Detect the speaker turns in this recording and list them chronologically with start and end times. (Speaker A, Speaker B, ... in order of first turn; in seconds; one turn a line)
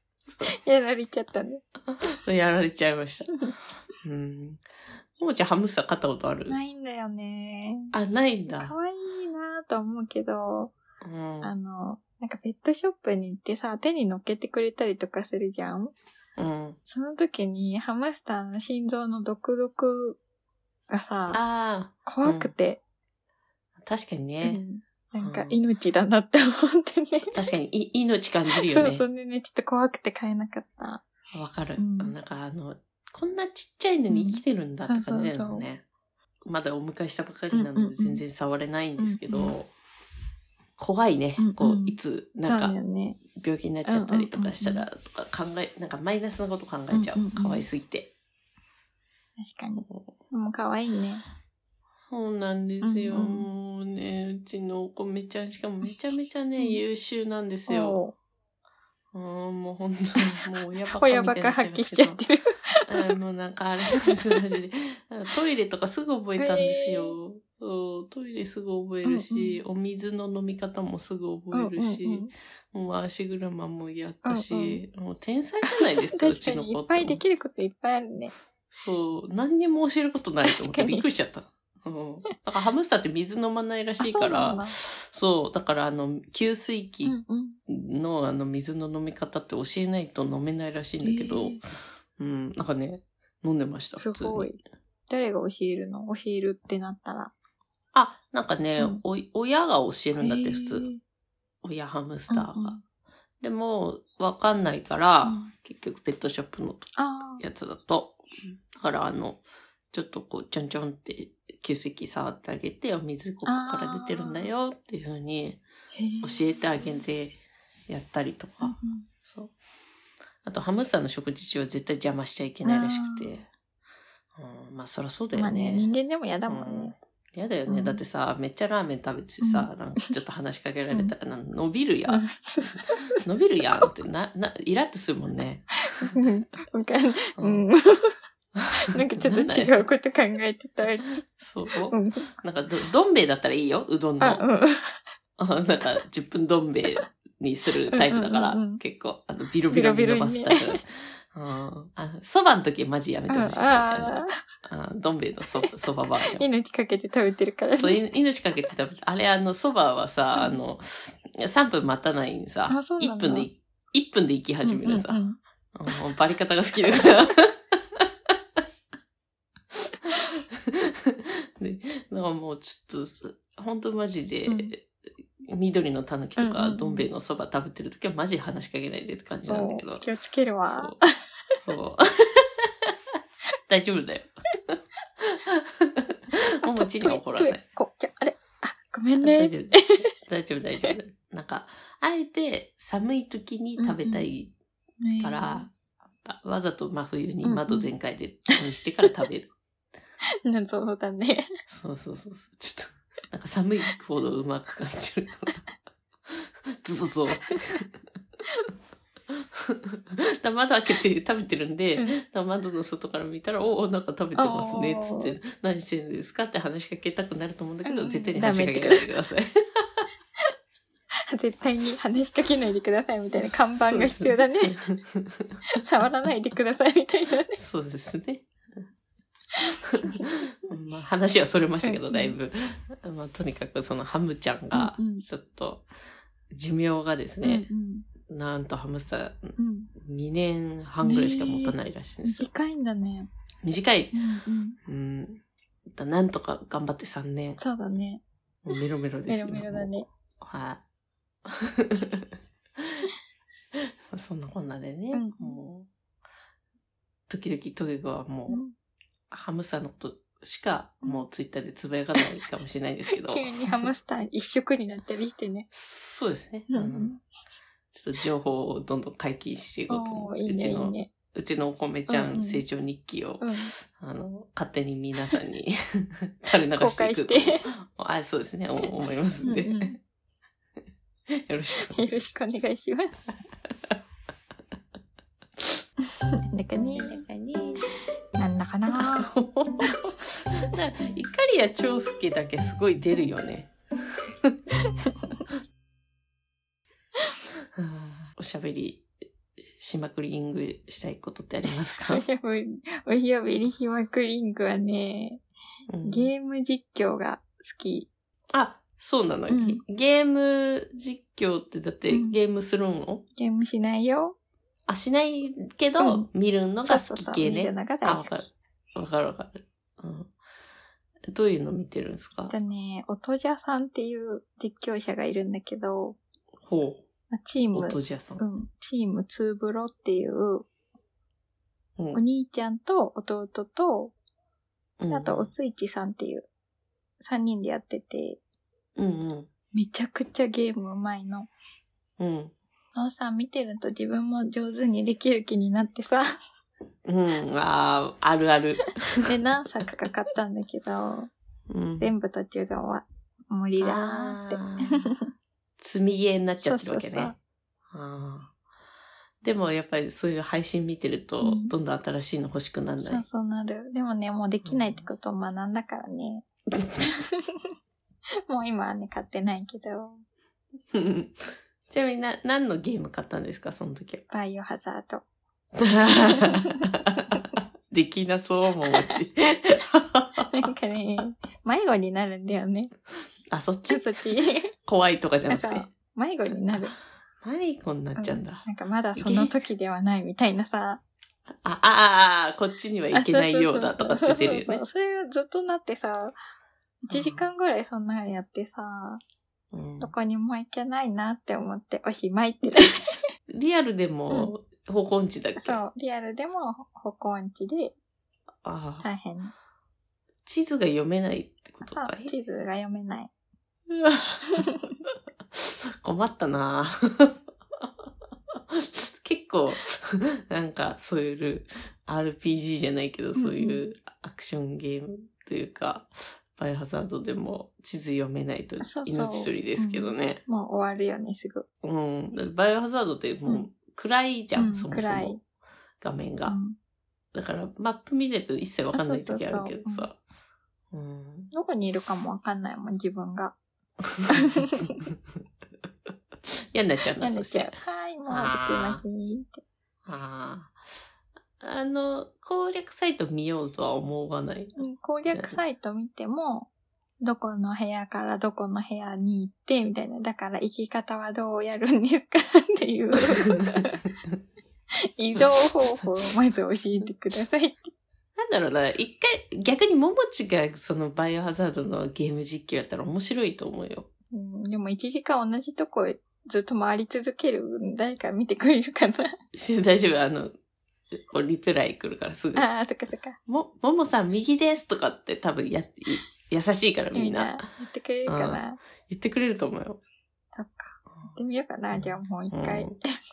Speaker A: 0.5-1.6
Speaker B: 1.9-3.4
Speaker B: 4.0-4.7
Speaker B: 5.2-6.6
Speaker A: 6.5-7.9
Speaker B: 7.9-8.8
Speaker A: 8.6-10.7
Speaker B: 11.0-11.5
Speaker A: 11.4-15.9
Speaker B: 16.4-16.8
Speaker A: 16.9-20.2
Speaker A: 20.9-21.4
Speaker B: 21.3-22.5
Speaker A: 22.1-22.8
Speaker B: 23.8-24.6
Speaker A: 24.4-27.3
Speaker B: 25.2-25.6
Speaker B: 27.3-29.1
Speaker A: 28.6-31.0
Speaker B: 31.3-35.8
Speaker A: 31.8-32.1
Speaker A: 34.1-35.7
Speaker B: 36.5-39.7
Speaker A: 37.5-38.2
Speaker A: 39.0-39.5
Speaker B: 40.8-42.8
Speaker A: 41.4-43.2
Speaker B: 43.3-48.1
Speaker A: 43.9-44.9
Speaker A: 46.9-47.6
Speaker A: 49.4-51.2
Speaker B: 49.9-50.1
Speaker B: 52.1-58.0
Speaker A: 52.8-53.5
Speaker A: 57.7-58.1
Speaker B: 59.1-62.2
Speaker A: 61.0-63.1
Speaker B: 62.9-77.2
Speaker A: 64.0-64.4
Speaker A: 66.4-67.2
Speaker A: 69.1-69.6
Speaker A: 71.5-72.3
Speaker A: 74.2-74.8
Speaker A: 75.8-78.3
Speaker B: 78.7-87.2
Speaker A: 80.5-81.1
Speaker A: 84.0-84.8
Speaker A: 87.0-87.6
Speaker B: 87.7-91.6
Speaker A: 91.0-91.6
Speaker B: 92.2-94.5
Speaker A: 94.0-97.3
Speaker B: 97.9-100.9
Speaker A: 100.2-101.0
Speaker B: 101.6-102.8
Speaker A: 102.3-102.8
Speaker B: 103.4-115.6
Speaker A: 105.2-105.5
Speaker A: 107.0-107.4
Speaker A: 113.5-114.5
Speaker A: 115.9-116.4
Speaker B: 116.2-119.5
Speaker A: 118.6-119.1
Speaker B: 120.4-123.5
Speaker A: 122.7-123.3
Speaker B: 124.3-125.9
Speaker A: 125.3-126.9
Speaker B: 126.5-132.3
Speaker A: 127.7-128.0
Speaker A: 129.4-130.1
Speaker A: 132.1-133.8
Speaker B: 133.2-136.3
Speaker A: 135.9-138.2
Speaker B: 137.4-137.7
Speaker B: 138.6-139.8
Speaker A: 138.8-141.2
Speaker B: 141.4-144.4
Speaker A: 141.9-142.3
Speaker A: 144.2-145.0
Speaker B: 145.4-156.4
Speaker A: 147.9-148.8
Speaker A: 149.7-150.8
Speaker A: 153.3-154.3
Speaker A: 156.3-158.0
Speaker B: 157.8-165.2
Speaker A: 162.7-163.5
Speaker A: 164.7-165.4
Speaker B: 165.7-168.1
Speaker B: 169.9-174.9
Speaker B: 175.4-180.1
Speaker A: 176.4-177.1
Speaker A: 179.5-181.1
Speaker B: 180.7-181.0
Speaker B: 181.6-182.9
Speaker B: 183.7-187.6
Speaker A: 186.6-190.1
Speaker B: 189.2-194.5
Speaker A: 193.8-194.2
Speaker A: 195.0-195.7
Speaker B: 195.2-199.5
Speaker A: 197.4-197.9
Speaker A: 200.4-201.5
Speaker B: 201.7-205.6
Speaker B: 206.3-207.9
Speaker B: 209.3-220.1
Speaker A: 214.4-215.3
Speaker A: 217.8-219.1
Speaker A: 221.3-224.8
Speaker B: 223.8-225.6
Speaker A: 225.8-227.6
Speaker B: 227.5-228.5
Speaker B: 229.6-235.9
Speaker A: 230.0-230.3
Speaker A: 231.8-232.3
Speaker A: 234.8-235.2
Speaker B: 236.5-237.7
Speaker A: 237.4-238.1
Speaker B: 238.3-242.5
Speaker A: 239.6-239.9
Speaker A: 241.0-243.3
Speaker B: 243.6-244.2
Speaker A: 244.1-244.8
Speaker B: 244.9-247.6
Speaker A: 247.6-248.2
Speaker B: 248.7-250.8
Speaker A: 249.3-250.1
Speaker B: 251.4-253.1
Speaker B: 254.1-255.9
Speaker A: 255.1-255.6
Speaker B: 257.3-258.6
Speaker A: 258.5-258.8
Speaker B: 259.3-263.9
Speaker A: 263.1-265.7
Speaker B: 265.7-267.2
Speaker A: 266.7-267.2
Speaker B: 267.9-279.9
Speaker A: 269.9-271.1
Speaker A: 272.1-272.6
Speaker A: 273.4-273.7
Speaker A: 276.8-277.6
Speaker A: 279.4-280.0
Speaker B: 281.3-282.6
Speaker A: 281.8-283.2
Speaker A: 286.5-287.2
Speaker B: 286.9-287.9
Speaker A: 288.4-289.3
Speaker B: 288.9-293.7
Speaker B: 297.8-299.1
Speaker B: 299.8-302.2
Speaker A: 302.0-305.4
Speaker B: 305.9-306.3
Speaker A: 306.0-308.1
Speaker B: 308.5-313.2
Speaker A: 309.5-309.8
Speaker A: 312.1-312.4
Speaker A: 313.4-314.4
Speaker B: 314.9-320.3
Speaker A: 316.0-316.3
Speaker A: 316.8-318.5
Speaker B: 321.3-322.6
Speaker A: 322.5-326.2
Speaker B: 326.6-327.1
Speaker A: 327.3-330.7
Speaker B: 327.7-328.4
Speaker B: 332.0-332.2
Speaker A: 332.1-334.1
Speaker B: 335.0-335.5
Speaker A: 335.1-336.5
Speaker A: 337.2-338.4
Speaker B: 339.0-339.5
Speaker A: 339.7-341.5
Speaker B: 342.2-342.5
Speaker A: 342.9-346.3
Speaker B: 347.1-349.2
Speaker A: 349.2-351.3
Speaker B: 351.7-352.1
Speaker A: 352.0-355.2
Speaker B: 353.8-355.1
Speaker B: 355.8-357.4
Speaker A: 356.6-357.4
Speaker B: 357.9-358.5
Speaker B: 359.4-363.2
Speaker A: 361.4-361.7
Speaker A: 363.0-366.4
Speaker B: 364.6-365.1
Speaker A: 367.0-367.7
Speaker A: 368.5-370.2
Speaker B: 370.9-374.2
Speaker A: 374.3-375.2
Speaker B: 375.8-380.7
Speaker A: 376.3-377.4
Speaker A: 378.9-379.1
Speaker A: 380.5-382.9
Speaker B: 383.5-384.1
Speaker A: 383.9-384.7
Speaker B: 384.9-385.9
Speaker A: 385.5-386.9
Speaker B: 387.4-388.6
Speaker A: 388.2-391.0
Speaker B: 389.2-389.5
Speaker B: 391.6-394.8
Speaker A: 393.1-396.3
Speaker A: 397.0-399.2
Speaker B: 397.1-397.4
Speaker B: 399.7-400.1
Speaker A: 400.0-403.0
Speaker B: 403.5-405.8
Speaker A: 405.6-407.9
Speaker B: 408.6-409.1
Speaker A: 409.0-409.5
Speaker B: 410.5-412.3
Speaker A: 411.9-413.3
Speaker B: 413.9-414.7
Speaker A: 414.6-414.9
Speaker B: 415.5-417.9
Speaker B: 418.6-430.4
Speaker A: 423.4-423.8
Speaker A: 428.8-431.7
Speaker B: 431.8-435.4
Speaker A: 434.6-435.4
Speaker B: 436.0-436.6
Speaker A: 436.5-436.8
Speaker B: 437.3-440.2
Speaker A: 438.9-440.1
Speaker B: 440.9-441.5
Speaker A: 441.5-443.6
Speaker B: 444.1-445.1
Speaker A: 444.3-445.0
Speaker B: 446.4-447.8
Speaker A: 447.2-449.6
Speaker B: 448.3-449.0
Speaker B: 450.1-450.8
Speaker B: 451.6-455.6
Speaker A: 454.8-456.7
Speaker A: 457.2-464.0
Speaker B: 463.4-463.9
Speaker A: 465.2-467.9
Speaker B: 465.4-466.0
Speaker B: 468.4-474.1
Speaker A: 474.3-479.3
Speaker B: 479.5-480.5
Speaker B: 481.1-482.7
Speaker A: 482.6-483.4
Speaker B: 483.5-487.7
Speaker A: 487.1-488.8
Speaker B: 488.3-490.0
Speaker A: 490.6-493.0
Speaker B: 491.9-492.9